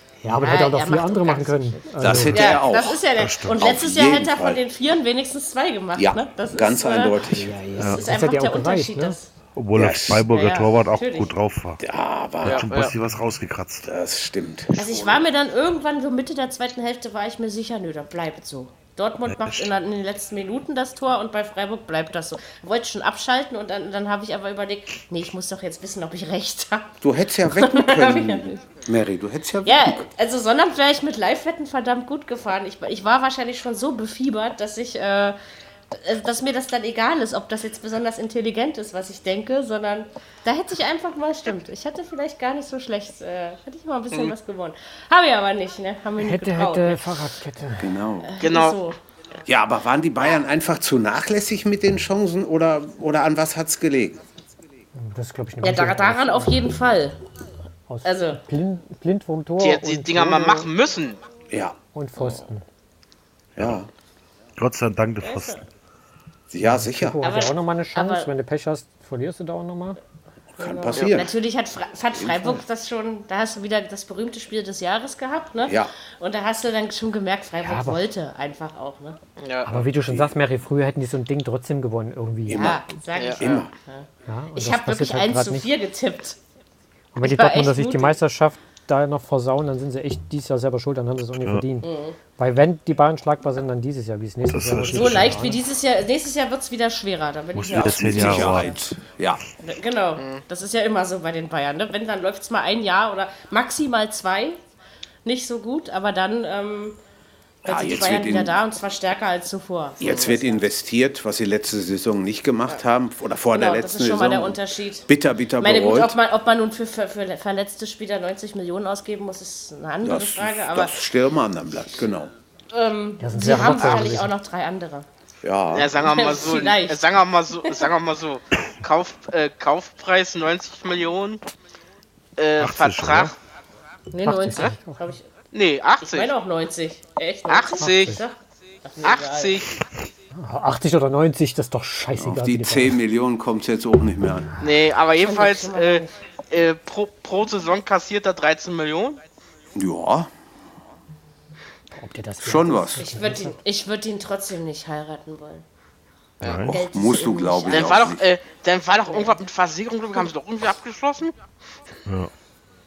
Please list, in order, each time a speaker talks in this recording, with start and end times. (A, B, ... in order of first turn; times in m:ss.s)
0:00.2-0:02.6 A
0:00.3-0:07.2 B
0:02.0-0:04.6 C
0:02.1-0:02.4 D
0:02.4-0:02.7 E
0:03.0-0:03.6 D
0:06.0-0:07.7 C
0:07.2-0:09.2 A
0:07.8-0:08.0 D
0:07.8-0:09.3 B
0:09.5-0:11.8 D
0:09.7-0:10.3 C
0:10.3-0:11.3 B
0:11.8-0:12.6 C
0:12.4-0:12.9 E
0:12.4-0:13.9 D
0:13.8-0:15.2 C
0:14.7-0:28.6 B
0:19.3-0:19.7 D
0:27.0-0:30.1 C
0:29.6-0:35.4 B
0:35.9-0:47.0 B
0:46.2-0:48.0 A
0:47.8-0:48.3 C
0:48.2-0:49.0 B
0:48.4-0:48.8 E
0:49.4-0:54.2 C
0:55.0-0:56.6 A
0:55.6-0:57.2 B
0:57.9-1:00.7 A
0:58.0-0:58.4 B
0:59.6-1:01.2 E
1:01.5-1:01.8 C
1:01.9-1:02.6 A
1:03.6-1:03.9 C
1:04.6-1:05.6 D
1:05.2-1:05.6 B
1:06.5-1:07.2 C
1:06.6-1:10.0 A
1:07.2-1:08.3 B
1:10.6-1:11.4 C
1:10.6-1:19.2 B
1:10.9-1:11.2 E
1:12.1-1:12.6 C
1:15.6-1:15.9 C
1:17.6-1:18.0 A
1:19.4-1:19.7 E
1:19.6-1:22.8 A
1:19.7-1:20.4 C
1:22.4-1:22.8 C
1:22.5-1:26.4 B
1:23.1-1:23.6 E
1:23.4-1:23.7 C
1:24.3-1:25.7 A
1:27.1-1:35.6 A
1:27.2-1:28.2 B
1:31.4-1:31.6 D
1:31.8-1:32.2 B
1:34.5-1:35.4 D
1:34.9-1:38.8 B
1:37.5-1:38.8 D
1:37.7-1:39.4 C
1:39.6-1:44.6 B
1:40.2-1:40.4 E
1:45.2-1:47.0 B
1:47.6-1:50.6 B
1:47.6-1:48.6 C
1:50.0-1:56.2 C
1:53.5-1:55.1 B
1:55.6-2:00.9 B
2:00.0-2:02.3 C
2:02.7-2:05.0 B
2:03.2-2:04.3 A
2:05.4-2:06.0 C
2:05.7-2:11.4 E
2:06.0-2:07.0 B
2:12.4-2:13.4 E
2:12.6-2:13.3 D
2:14.1-2:15.2 B
2:14.2-2:15.1 A
2:15.5-2:16.3 E
2:16.0-2:19.6 B
2:17.5-2:18.2 E
2:17.8-2:18.2 A
2:19.0-2:19.8 E
2:20.3-2:23.0 A
2:22.2-2:24.5 C
2:24.6-2:29.2 E
2:25.1-2:26.2 B
2:29.7-2:30.3 C
2:31.9-2:33.6 A
2:32.4-2:33.1 C
2:33.0-2:35.6 B
2:36.4-2:36.8 D
2:36.4-2:38.0 B
2:36.5-2:38.3 C
2:37.7-2:41.3 E
2:39.1-2:39.4 B